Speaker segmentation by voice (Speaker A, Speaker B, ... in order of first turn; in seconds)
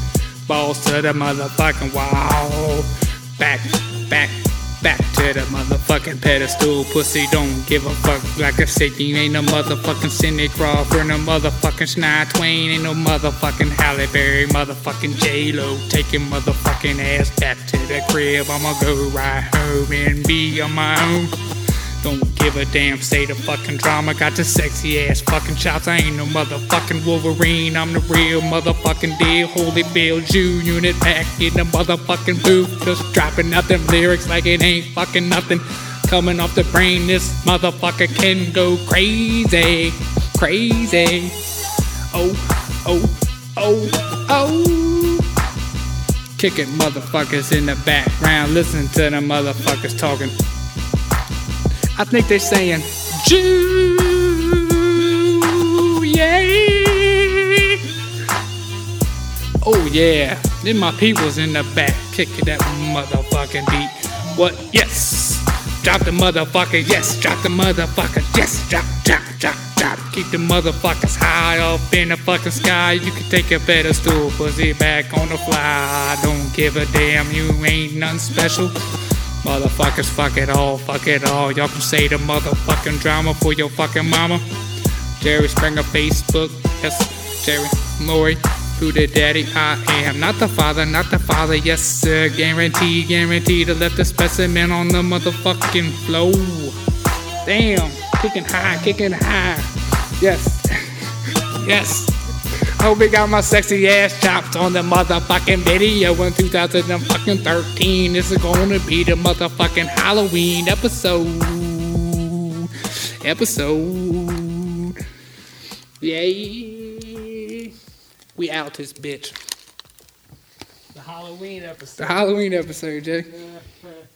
Speaker A: 0.5-21.4, 22.0-41.4, 42.1-45.3, 46.4-50.3, 51.9-57.8, 59.6-78.7, 79.4-84.4, 85.2-96.8, 97.4-101.0, 101.5-102.1, 102.8-112.7, 113.2-115.0, 116.0-117.7, 118.4-119.4, 121.0-123.5